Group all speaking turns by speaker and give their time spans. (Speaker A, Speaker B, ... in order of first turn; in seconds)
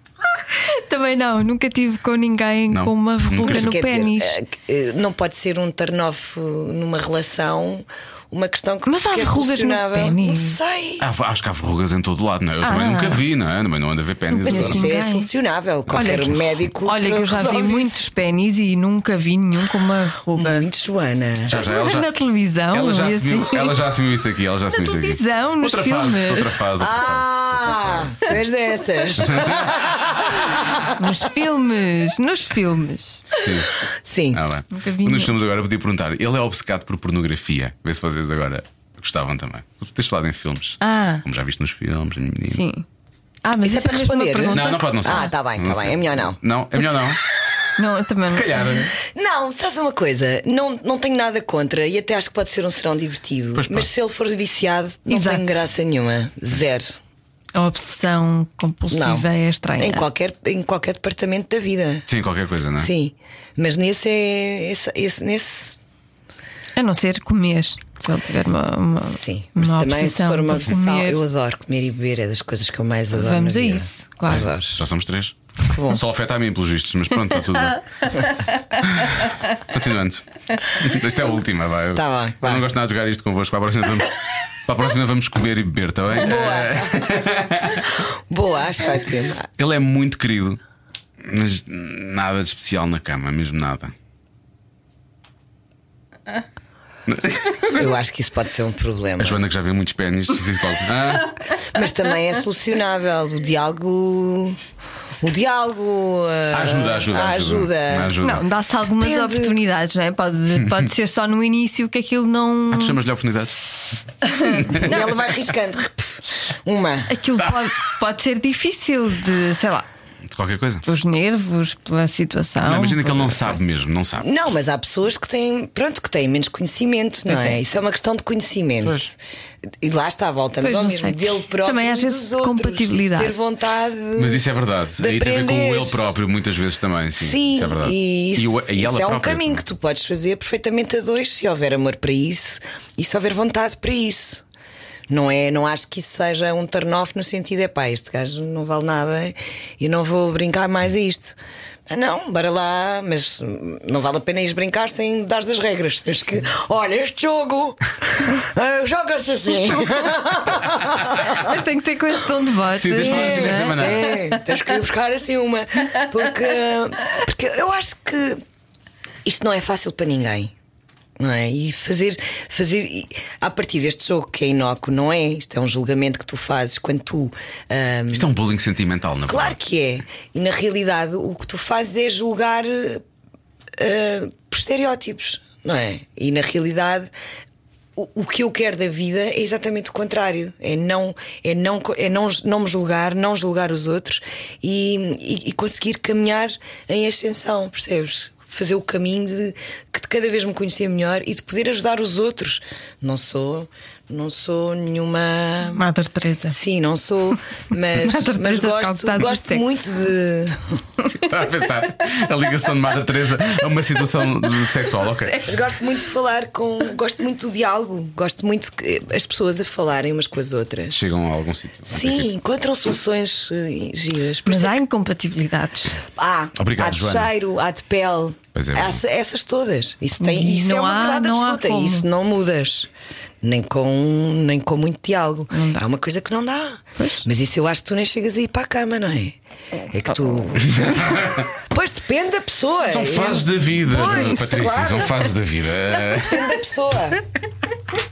Speaker A: 0.6-4.4, 8.9-10.6, 12.6-13.2, 14.3-15.3, 15.9-20.7, 21.6-23.8, 24.8-26.6, 30.9-33.2, 34.7-35.4, 40.8-41.2, 42.5-42.9, 43.4-45.3, 47.8-48.6, 55.1-55.6, 57.5-60.1, 66.8-71.2, 73.1-74.5, 108.2-113.0, 114.4-114.7, 117.1-119.9, 120.8-123.6, 130.6-133.3, 161.3-164.4, 205.7-206.6, 207.9-209.8, 224.5-226.0, 230.2-232.1, 235.5-235.8, 237.0-237.2
Speaker B: 2.7-3.7, 11.0-14.9, 15.9-16.2, 21.5-22.1, 22.7-28.4, 29.2-30.8, 33.3-33.7, 34.3-42.6, 44.5-47.2, 48.2-48.9, 53.5-53.9, 62.1-62.9, 74.4-77.8, 78.8-88.0, 89.6-90.6, 91.2-93.9, 97.1-97.9, 99.2-101.4, 106.5-108.5, 112.7-113.6, 114.4-115.0, 120.3-120.8, 122.6-124.3, 134.2-139.6, 162.8-164.1, 178.1-179.6, 211.1-215.5, 220.9-222.3, 226.6-227.3, 228.6-229.0, 240.6-241.5, 242.9-246.5
Speaker C: 3.5-11.1, 14.5-18.0, 20.4-21.6, 26.8-30.8, 34.0-34.4, 43.6-46.4, 49.0-57.0, 58.9-62.1, 62.8-65.8, 69.0-74.8, 75.7-76.0, 81.9-82.7, 86.2-87.1, 87.8-89.5, 97.7-99.4, 101.6-104.6, 105.2-108.2, 108.9-109.6, 114.7-117.2, 124.2-134.4, 135.0-136.1, 137.2-144.4, 145.1-151.4, 151.9-161.6, 162.9-168.4, 169.2-170.5, 171.2-178.3, 179.3-183.0, 183.8-187.1, 188.0-205.8, 206.5-210.8, 215.4-221.0, 221.9-224.8, 226.2-232.9, 233.4-239.4, 239.9-245.2, 246.2-247.2